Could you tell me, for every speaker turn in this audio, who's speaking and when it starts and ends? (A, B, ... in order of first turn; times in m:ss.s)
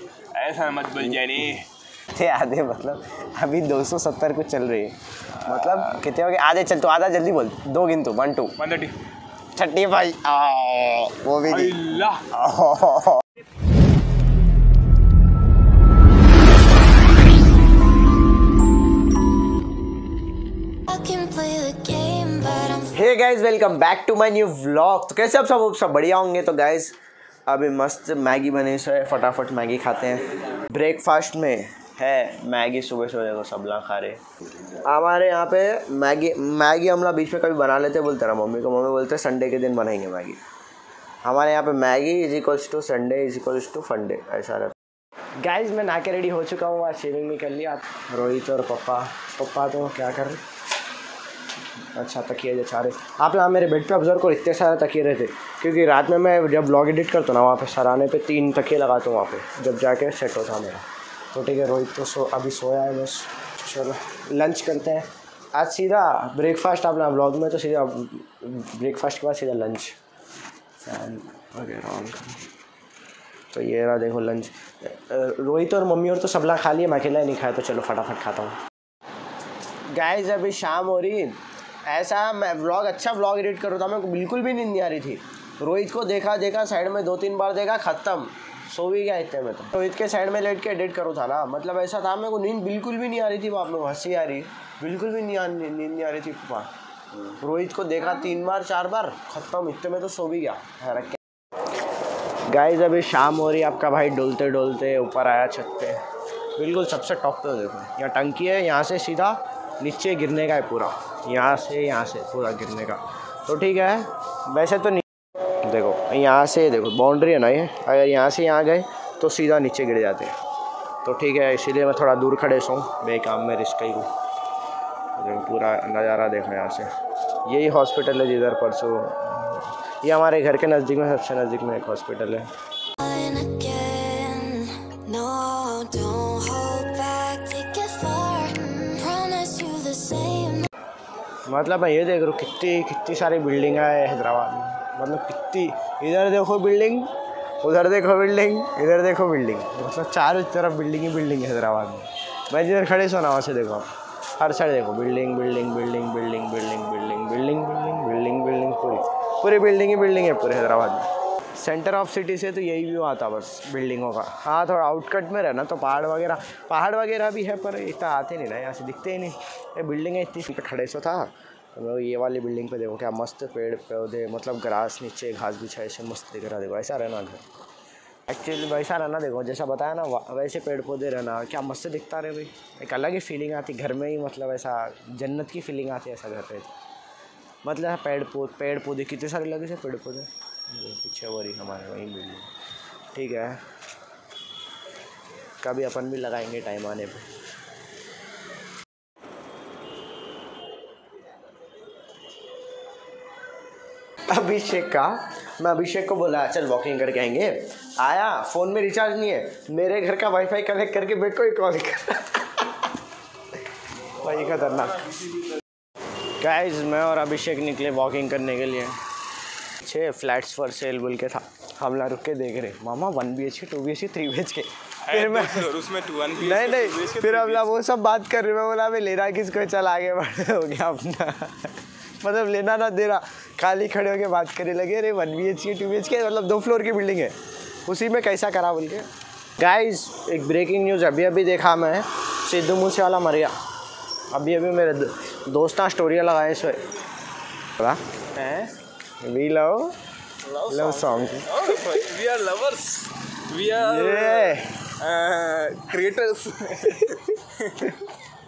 0:00.3-0:01.7 A
0:01.0-0:01.5 B
0:02.1-0:08.5 B
0:08.6-0:09.0 A
0:09.6-0:13.2 B
0:11.5-0:12.2 A
0:20.9-0:23.0 C
0:22.9-0:27.0 B
0:27.5-0:40.4 B
0:41.2-0:44.7 B
0:45.4-0:50.4 B
0:52.0-1:09.9 B
1:10.8-1:12.4 B
1:13.5-1:18.6 B
1:19.9-1:36.7 B
1:37.3-1:41.2 B
1:42.5-1:46.0 B
1:46.6-1:55.0 B
1:55.6-2:00.3 B
2:01.0-2:04.1 B
2:05.2-2:06.9 B
2:07.4-2:12.5 B
2:13.0-2:20.7 C
2:21.5-2:27.1 B
2:27.6-2:57.4 B
2:58.3-3:06.7 B
3:07.6-3:12.5 B
3:13.2-3:13.6 B
3:15.6-3:17.3 B
3:24.3-3:32.7 B
3:34.2-3:35.2 B
3:36.4-3:39.0 B
3:39.8-3:45.7 B
3:45.0-3:47.7 A
3:46.4-3:57.3 B
3:57.9-3:59.0 B
3:59.6-4:03.5 B
4:04.3-4:06.8 B
4:08.3-4:08.7 A
4:09.2-4:10.0 B
4:10.4-4:17.9 A
4:10.7-4:11.5 B
4:13.8-4:14.8 B